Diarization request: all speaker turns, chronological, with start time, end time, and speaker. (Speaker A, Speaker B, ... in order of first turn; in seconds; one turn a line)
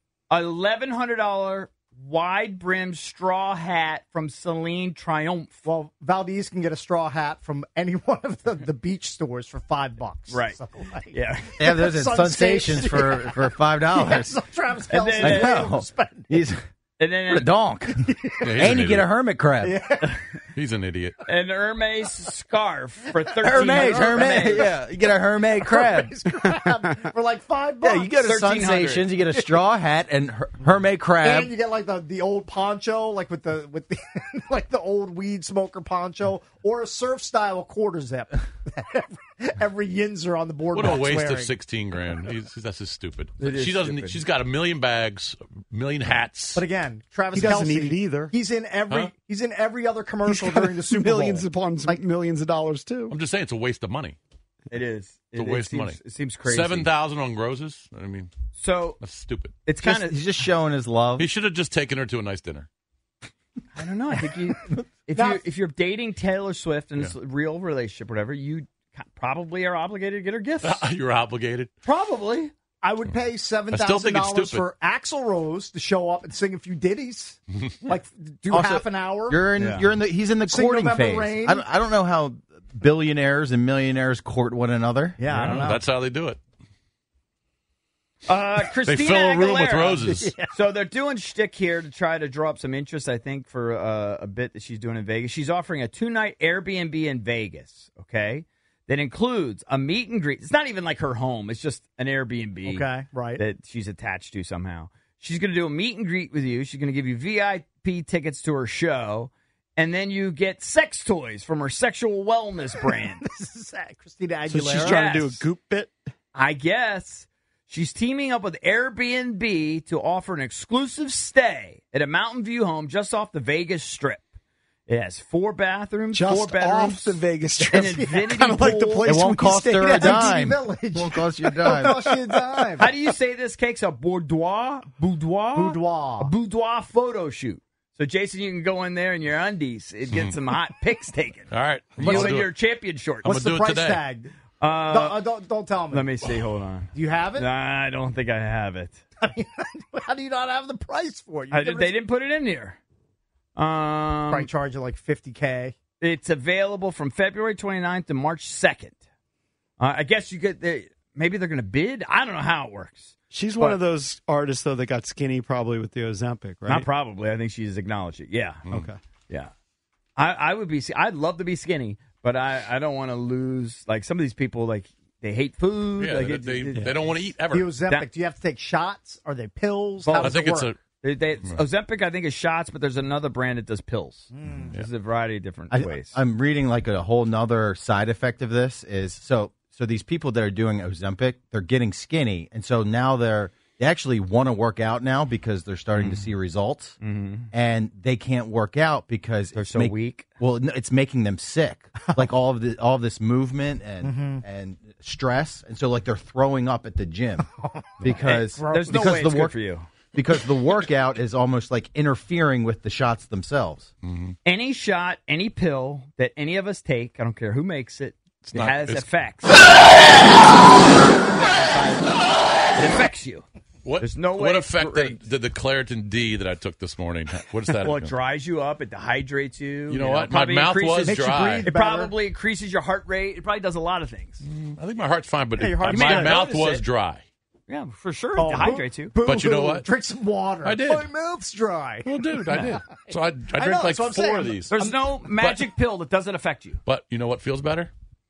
Speaker A: 0.3-5.6
Speaker B: 5.6-16.3
Speaker A: 10.3-11.5
Speaker C: 11.6-14.4
Speaker A: 14.9-15.7
Speaker C: 15.2-16.6
Speaker A: 17.0-17.5
Speaker C: 17.3-19.8
Speaker B: 18.0-18.6
Speaker D: 18.4-19.1
Speaker B: 19.6-20.4
Speaker D: 20.5-21.2
Speaker A: 21.3-24.7
Speaker C: 23.4-26.2
Speaker B: 23.5-24.7
Speaker B: 25.6-28.2
Speaker C: 27.8-31.5
Speaker A: 28.2-29.0
Speaker B: 29.3-29.6
Speaker B: 31.2-41.5
Speaker D: 40.7-46.6
Speaker A: 43.4-44.2
Speaker B: 46.5-52.0
Speaker E: 47.3-48.3
Speaker E: 50.2-53.1
Speaker D: 53.1-54.2
Speaker A: 54.7-56.9
Speaker D: 55.3-58.3
Speaker A: 58.5-59.0
Speaker D: 59.0-59.5
Speaker A: 59.6-60.2
Speaker C: 59.8-61.3
Speaker D: 61.2-62.7
Speaker A: 63.7-70.8
Speaker B: 65.1-65.4
Speaker D: 70.6-71.7
Speaker A: 71.8-72.5
Speaker B: 72.8-79.4
Speaker D: 73.7-74.7
Speaker C: 78.5-85.3
Speaker A: 79.6-79.8
Speaker B: 80.4-81.6
Speaker B: 85.2-85.8
Speaker D: 85.3-86.4
Speaker A: 88.2-113.2
Speaker D: 88.8-90.3
Speaker B: 90.0-90.5
Speaker B: 102.6-103.4
Speaker B: 112.9-115.0
Speaker E: 114.5-115.9
Speaker A: 114.8-115.4
Speaker A: 116.3-124.3
Speaker A: 124.9-129.2
Speaker E: 126.1-130.4
Speaker B: 127.7-128.3
Speaker C: 129.0-132.0
Speaker B: 129.8-132.9
Speaker E: 131.4-132.9
Speaker A: 132.8-143.3
Speaker B: 135.5-136.3
Speaker D: 141.5-142.5
Speaker B: 142.0-142.4
Speaker D: 143.2-144.0
Speaker B: 143.2-146.1
Speaker A: 144.6-145.3
Speaker A: 145.9-149.0
Speaker B: 146.9-147.5
Speaker B: 149.2-151.9
Speaker A: 151.5-152.8
Speaker A: 153.6-154.5
Speaker B: 154.3-155.7
Speaker A: 156.0-159.0
Speaker A: 159.8-163.8
Speaker E: 163.3-166.9
Speaker A: 166.7-168.7
Speaker E: 168.7-169.0
Speaker A: 170.2-177.3
Speaker D: 176.0-177.7
Speaker B: 177.5-180.7
Speaker A: 180.0-180.4
Speaker D: 180.2-180.8
Speaker A: 181.0-186.1
Speaker B: 184.3-184.8
Speaker C: 185.7-197.0
Speaker A: 196.0-196.2
Speaker A: 197.0-197.5
Speaker C: 197.5-207.4
Speaker A: 199.5-200.2
Speaker B: 204.0-204.4
Speaker B: 207.6-209.2
Speaker C: 208.0-209.6
Speaker A: 208.1-209.9
Speaker C: 210.1-213.9
Speaker D: 214.0-214.3
Speaker A: 214.4-219.6
Speaker D: 218.4-219.1
Speaker A: 221.4-222.1
Speaker A: 222.7-223.4
Speaker D: 223.8-228.1
Speaker A: 224.0-225.2
Speaker A: 227.8-234.4
Speaker D: 229.9-231.7
Speaker B: 231.0-232.1
Speaker D: 234.4-237.2
Speaker A: 235.6-236.8
Speaker B: 235.6-236.3
Speaker A: 237.7-239.1
Speaker B: 238.3-245.0
Speaker D: 239.2-239.9
Speaker D: 240.6-241.1
Speaker D: 242.0-245.7
Speaker A: 242.5-242.8
Speaker A: 244.7-246.8
Speaker D: 246.8-247.9